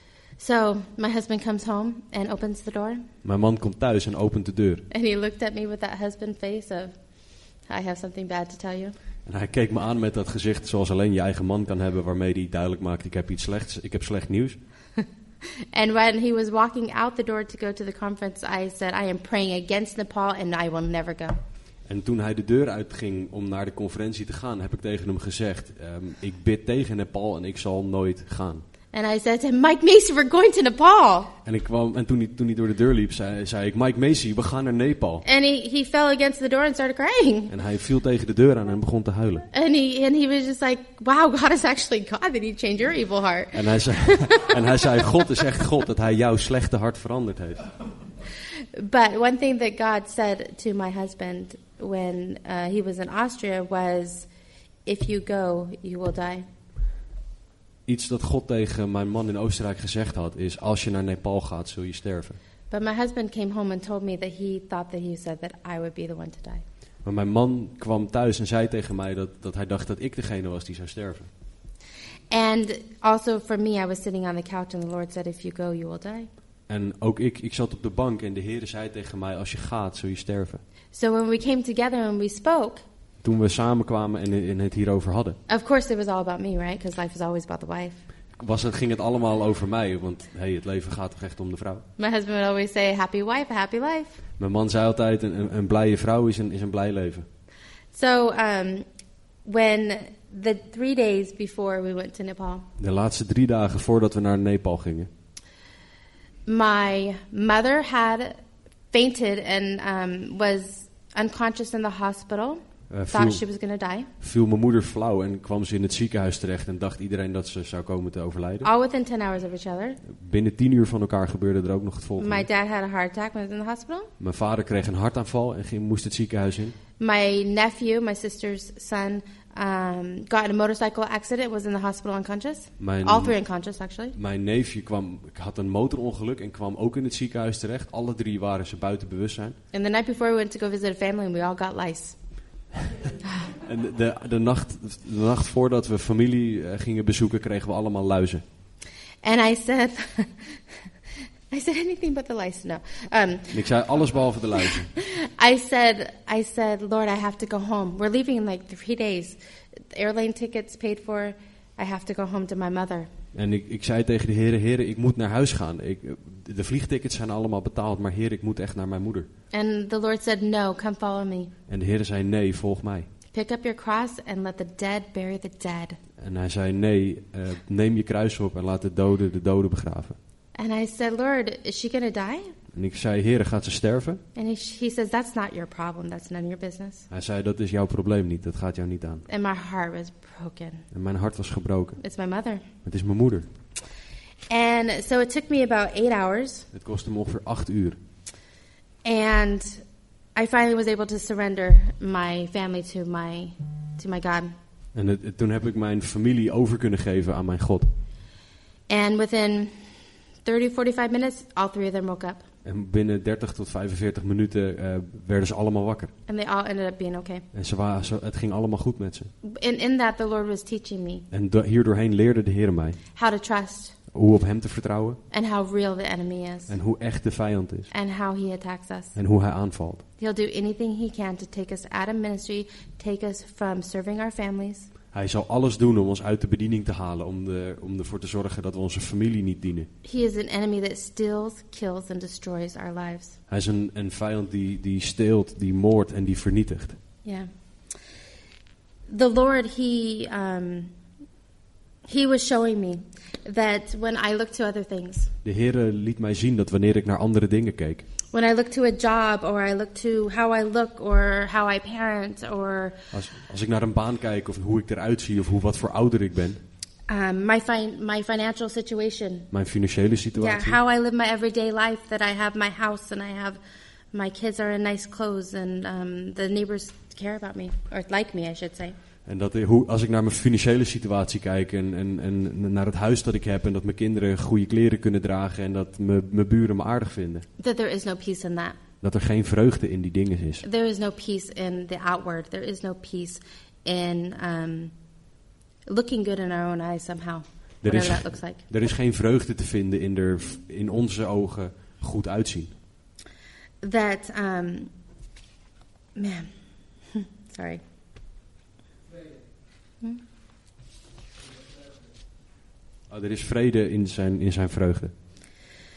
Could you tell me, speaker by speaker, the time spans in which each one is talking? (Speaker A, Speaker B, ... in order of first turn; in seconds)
Speaker A: 0.4-3.0, 4.9-6.9, 7.7-8.9, 15.7-21.4, 28.9-31.3, 35.2-37.5, 39.5-44.5, 48.8-54.3, 54.9-56.5, 62.7-66.6, 72.3-76.3, 80.9-82.8, 85.5-88.0, 92.0-94.2, 97.9-98.8, 99.4-102.7, 106.5-108.4, 108.9-114.1, 118.6-120.0, 122.2-124.1, 127.0-134.1, 139.7-142.2, 149.2-150.6, 151.5-153.6, 154.9-159.4, 159.9-163.1, 169.5-171.5, 173.3-176.0, 180.5-182.5, 184.3-187.1, 189.3-190.8, 192.0-192.6, 194.5-196.7, 199.0-199.8, 200.3-204.5, 208.9-209.7, 210.4-212.4, 216.3-217.4, 219.4-221.2, 223.2-223.9, 225.3-226.7, 227.9-229.2, 230.2-234.9, 240.0-243.3, 247.2-247.5, 249.1-250.9, 252.1-255.3, 258.3-263.0, 267.1-269.5, 270.3-273.6, 274.1-278.9, 287.6-288.8, 290.6-294.9, 295.9-298.6, 303.8-304.9, 306.1-306.5, 307.1-307.8
Speaker B: 3.2-4.8, 9.2-14.6, 21.9-28.6, 31.4-35.2, 37.5-39.5, 43.5-47.7, 57.9-62.4, 67.0-71.3, 76.7-80.6, 83.2-85.4, 88.4-91.8, 94.4-97.2, 102.8-105.1, 112.9-113.4, 114.2-118.7, 120.1-122.5, 124.2-126.8, 132.8-133.3, 134.2-139.6, 143.6-148.4, 153.5-154.9, 163.3-169.3, 171.7-173.1, 176.2-180.2, 182.7-184.2, 187.1-189.2, 190.9-192.0, 192.8-193.5, 196.7-198.0, 204.9-207.9, 212.6-216.1, 217.5-219.3, 221.3-223.0, 224.1-225.2, 226.7-227.9, 229.1-230.0, 235.1-239.9, 243.5-247.0, 255.4-258.0, 263.1-266.6, 269.5-270.8, 279.2-287.4, 289.0-290.6, 297.8-302.7, 313.1-315.1